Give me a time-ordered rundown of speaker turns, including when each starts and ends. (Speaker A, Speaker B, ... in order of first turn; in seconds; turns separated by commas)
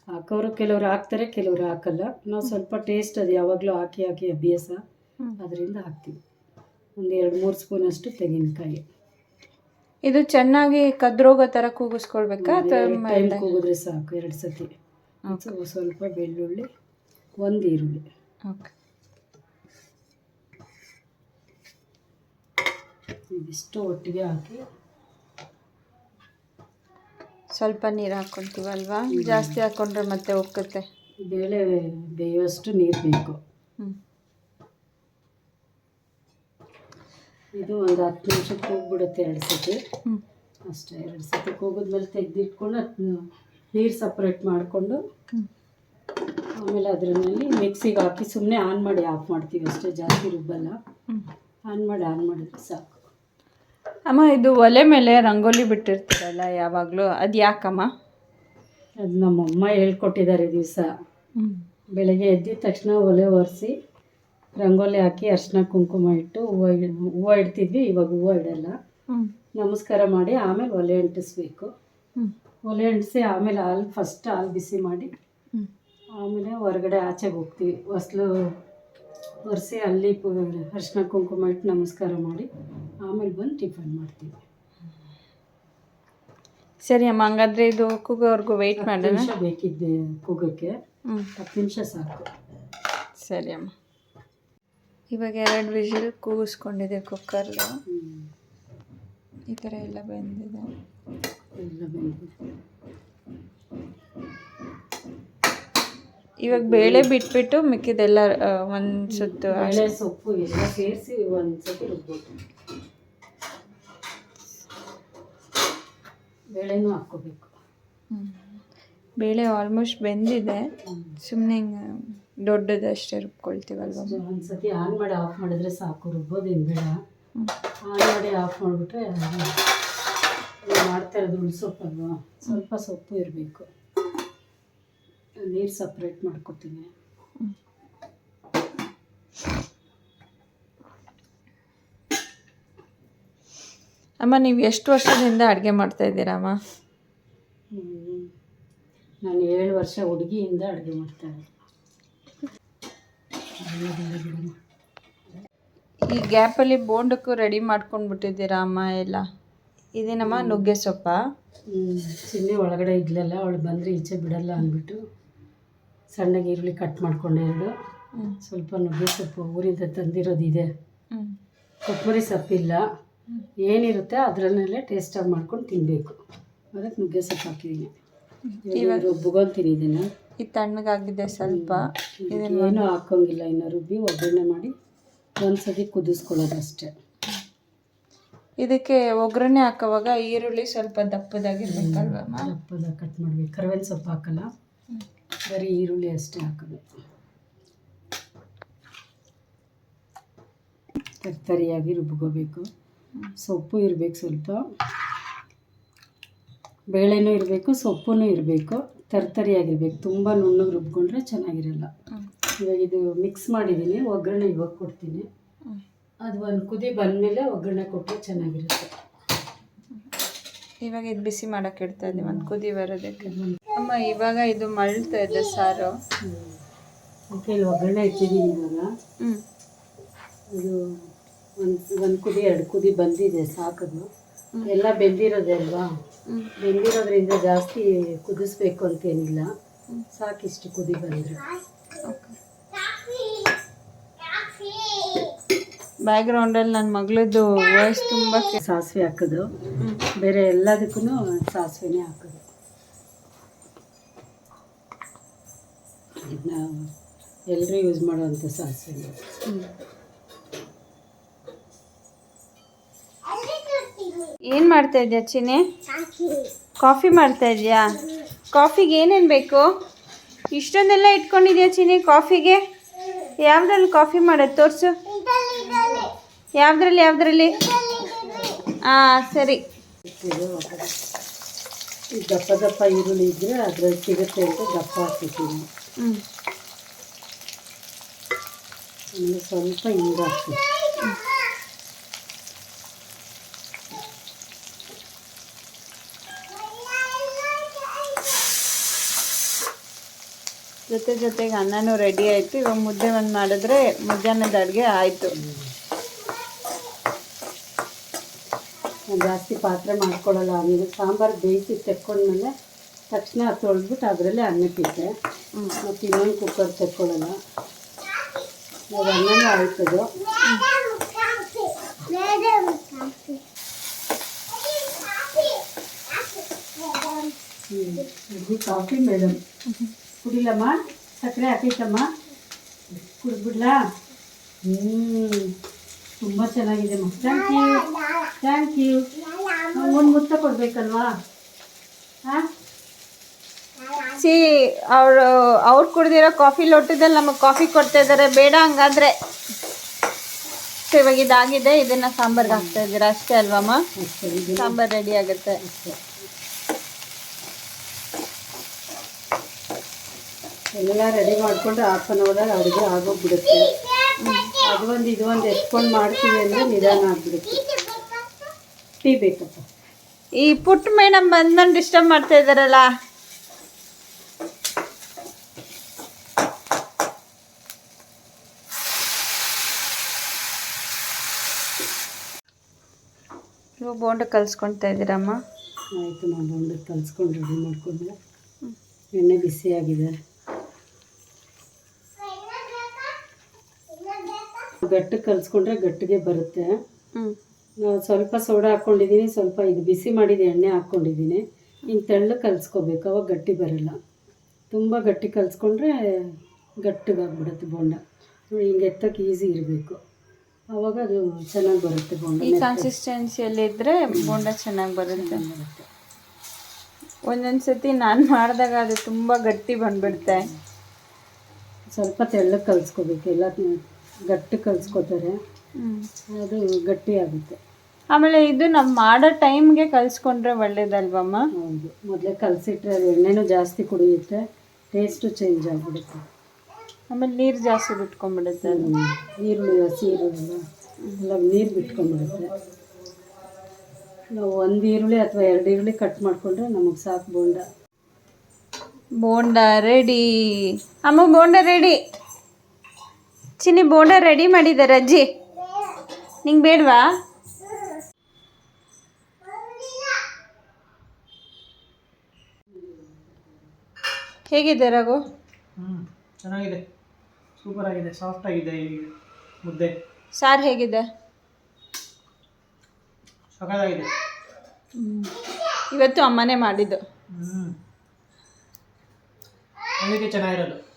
Speaker A: 0.1-4.8, Speaker A: 5.4-6.2, Speaker A: 7.0-8.8, Speaker B: 10.0-13.4, Speaker A: 12.4-14.7, Speaker A: 15.3-16.7, Speaker A: 17.4-18.0, Speaker A: 23.3-24.6, Speaker B: 27.6-30.8, Speaker A: 29.1-29.6, Speaker A: 31.3-33.4, Speaker A: 37.5-39.8, Speaker A: 40.7-45.0, Speaker A: 46.6-50.8, Speaker A: 51.7-53.0, Speaker B: 54.1-57.9, Speaker A: 59.0-60.9, Speaker B: 61.4-61.6, Speaker A: 62.0-63.7, Speaker A: 64.6-68.7, Speaker A: 69.6-71.7, Speaker A: 72.7-75.1, Speaker A: 76.2-78.3, Speaker A: 79.5-82.5, Speaker A: 83.0-84.4, Speaker B: 86.8-89.3, Speaker A: 88.8-90.7, Speaker A: 91.4-92.3, Speaker B: 93.2-93.7, Speaker B: 95.1-97.8, Speaker A: 97.9-98.3, Speaker B: 99.5-100.7, Speaker A: 101.6-102.3, Speaker B: 106.4-109.9, Speaker A: 106.5-107.1, Speaker A: 109.1-112.3, Speaker A: 116.5-117.5, Speaker B: 118.1-118.6, Speaker B: 119.2-120.7, Speaker A: 120.8-121.2, Speaker B: 121.2-124.2, Speaker A: 123.8-127.0, Speaker A: 127.9-129.6, Speaker A: 130.7-133.7, Speaker A: 135.4-136.9, Speaker B: 144.2-146.6, Speaker A: 147.7-148.3, Speaker A: 149.2-151.5, Speaker A: 153.6-154.6, Speaker B: 156.1-159.2, Speaker B: 160.0-161.2, Speaker A: 160.2-160.6, Speaker A: 161.7-165.0, Speaker A: 166.1-167.7, Speaker A: 168.4-170.7, Speaker A: 171.8-172.8, Speaker A: 173.6-176.2, Speaker A: 176.7-177.9, Speaker B: 178.4-179.1, Speaker A: 178.6-180.1, Speaker B: 180.4-182.8, Speaker A: 181.3-184.7, Speaker A: 185.4-186.9, Speaker B: 188.6-192.5, Speaker A: 191.7-194.5, Speaker A: 195.5-196.8, Speaker A: 201.2-202.7, Speaker A: 203.4-204.6, Speaker A: 206.9-211.9, Speaker A: 212.6-215.2, Speaker A: 216.2-218.9, Speaker B: 220.8-225.9, Speaker A: 222.1-222.5, Speaker A: 223.2-223.6, Speaker A: 226.2-226.6, Speaker A: 227.3-228.9, Speaker A: 230.5-231.1, Speaker A: 231.6-234.1, Speaker A: 234.6-235.9, Speaker A: 236.6-239.5, Speaker A: 240.1-241.5, Speaker B: 242.0-242.3, Speaker B: 246.1-248.6, Speaker A: 248.6-249.5, Speaker A: 250.2-252.4, Speaker A: 256.2-256.9, Speaker A: 257.5-259.2, Speaker B: 264.5-265.6, Speaker B: 266.8-269.7, Speaker B: 270.5-272.6, Speaker B: 273.4-275.0, Speaker A: 275.7-275.9, Speaker B: 276.6-277.7, Speaker B: 278.9-279.6, Speaker A: 280.1-280.9, Speaker A: 282.2-285.6, Speaker A: 289.1-290.6, Speaker B: 300.9-305.3, Speaker A: 305.3-305.7, Speaker A: 309.1-312.5, Speaker A: 313.1-315.1, Speaker A: 315.8-317.4, Speaker A: 318.9-320.1, Speaker B: 320.4-320.7, Speaker A: 327.7-329.4, Speaker B: 329.7-329.9, Speaker A: 330.2-332.1, Speaker A: 332.9-333.8, Speaker A: 334.6-335.5, Speaker A: 336.2-341.1, Speaker B: 344.0-349.1, Speaker B: 350.8-353.8, Speaker A: 352.3-352.8, Speaker A: 354.0-354.8, Speaker B: 354.6-355.6, Speaker A: 355.6-356.0, Speaker A: 360.8-363.8, Speaker B: 364.2-364.5, Speaker A: 364.6-367.8, Speaker A: 369.0-369.6, Speaker B: 370.4-372.9, Speaker B: 383.8-385.4, Speaker A: 385.9-388.1, Speaker A: 389.1-390.1, Speaker A: 394.8-396.7, Speaker A: 397.8-404.0, Speaker A: 404.7-408.0, Speaker A: 408.5-410.0, Speaker A: 410.7-412.9, Speaker B: 412.4-415.4, Speaker A: 414.1-414.4, Speaker A: 415.1-415.9, Speaker B: 417.3-420.5, Speaker A: 420.0-420.6, Speaker A: 421.9-425.4, Speaker B: 425.8-426.1, Speaker A: 426.4-427.6, Speaker B: 428.1-431.4, Speaker A: 431.6-434.4, Speaker A: 434.9-436.3, Speaker B: 437.1-438.9, Speaker A: 438.6-440.6, Speaker A: 441.2-442.5, Speaker A: 444.4-447.6, Speaker B: 449.2-452.0, Speaker B: 453.6-455.2, Speaker B: 456.4-457.1, Speaker B: 464.5-465.2, Speaker C: 465.8-466.8, Speaker C: 467.6-469.1, Speaker C: 469.6-469.9, Speaker B: 470.3-471.0, Speaker C: 473.6-474.1, Speaker B: 475.0-475.3, Speaker B: 475.9-477.0, Speaker C: 477.3-477.7, Speaker C: 480.0-480.8